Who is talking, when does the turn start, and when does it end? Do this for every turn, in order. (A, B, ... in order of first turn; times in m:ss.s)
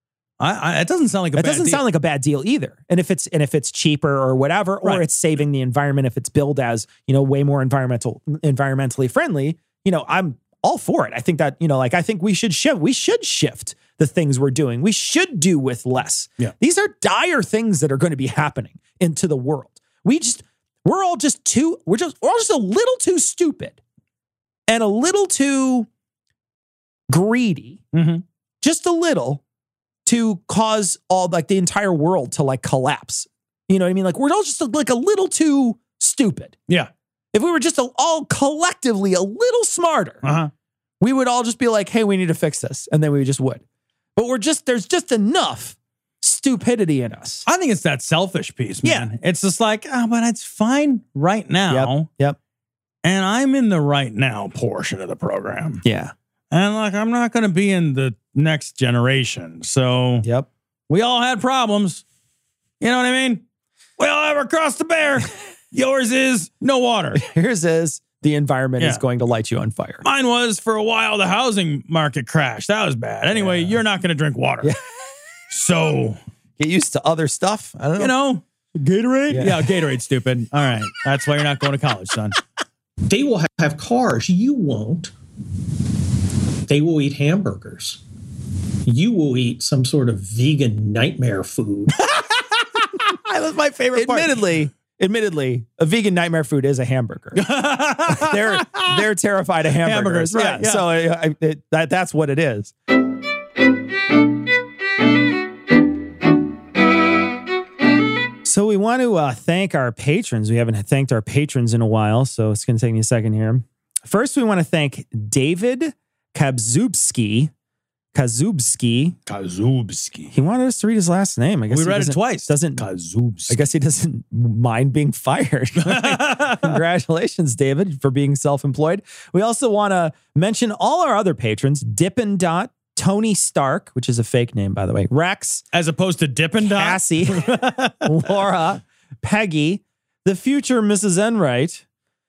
0:00.4-0:01.8 A
0:01.4-0:23.8 B
0:24.7-0:25.9 B
0:27.1-0:27.8 B
0:27.9-0:28.2 A
0:28.6-0:29.4 B
0:30.0-0:36.6 B
0:37.3-0:40.2 B
0:40.2-0:40.5 A
0:41.0-0:43.6 B
0:44.2-0:47.4 B
0:47.4-0:52.1 A
0:48.8-0:49.1 B
0:51.7-0:52.4 B
0:53.0-0:55.8 A
0:55.8-0:56.1 B
0:56.5-1:00.2 A
1:00.2-1:00.5 B
1:00.9-1:02.0 A
1:02.8-1:03.4 A
1:04.0-1:07.2 A
1:07.1-1:10.0 B
1:10.0-1:14.7 A
1:13.3-1:13.8 B
1:15.5-1:16.2 A
1:16.6-1:18.1 B
1:18.0-1:22.4 A
1:19.3-1:19.7 B
1:23.0-1:25.1 C
1:26.6-1:28.0 C
1:28.8-1:31.9 C
1:32.1-1:32.3 A
1:32.9-1:34.4 A
1:33.9-1:42.7 B
1:37.4-1:39.0 A
1:39.8-1:40.9 A
1:48.4-1:57.5 B
1:58.1-1:59.2 B
1:59.3-2:00.3 A
2:00.3-2:02.8 B
2:01.7-2:03.6 A
2:03.5-2:15.6 B
2:05.8-2:06.8 A
2:15.7-2:18.3 A
2:16.6-2:21.8 B